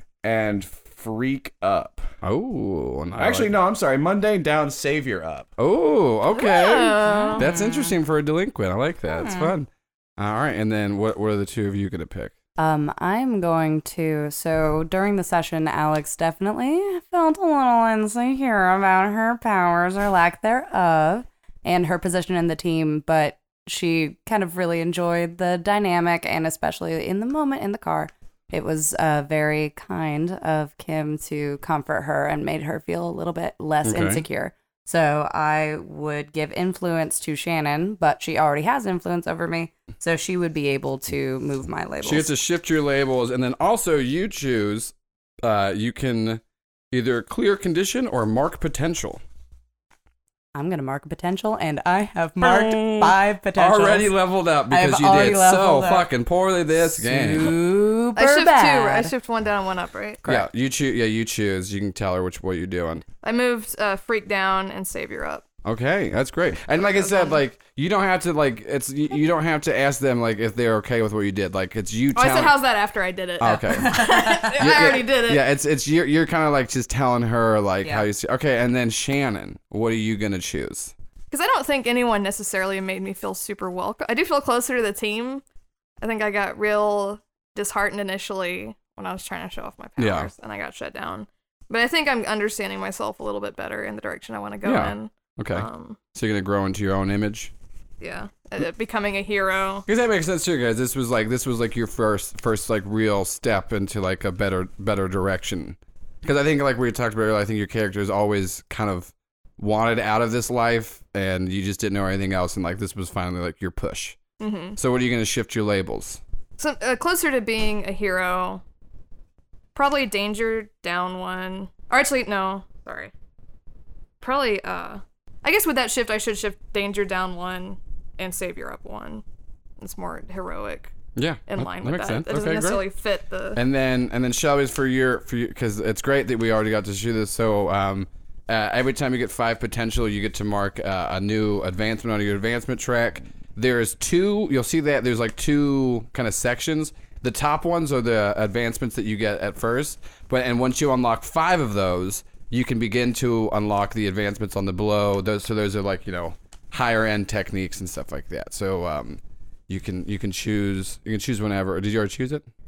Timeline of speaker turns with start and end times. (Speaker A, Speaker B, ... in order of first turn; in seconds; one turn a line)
Speaker A: 0.2-2.1
Speaker B: 2.2-3.5
Speaker A: 3.1-5.5
Speaker B: 5.6-12.3
Speaker C: 6.3-7.5
Speaker D: 7.0-7.9
Speaker D: 9.1-9.5
Speaker D: 12.6-42.3
Speaker B: 33.8-34.2
Speaker B: 42.0-49.2
Speaker D: 50.5-54.1
Speaker B: 52.4-57.5
Speaker D: 54.7-56.1
Speaker D: 56.9-59.1
Speaker C: 58.1-60.2
Speaker B: 60.2-63.0
Speaker C: 63.2-65.4
Speaker B: 65.6-72.5
Speaker C: 67.0-67.4
Speaker C: 72.1-75.4
Speaker B: 73.4-80.9
Speaker D: 73.7-74.6
Speaker C: 81.3-85.4
Speaker C: 86.0-96.0
Speaker B: 90.0-90.3
Speaker B: 94.6-97.5
Speaker C: 98.0-99.8
Speaker B: 99.8-114.2
Speaker C: 114.4-114.8
Speaker B: 114.8-116.2
Speaker C: 116.6-118.6
Speaker C: 119.7-123.1
Speaker C: 124.2-129.2
Speaker C: 129.8-130.9
Speaker B: 131.2-132.8
Speaker C: 131.5-133.6
Speaker B: 133.6-162.4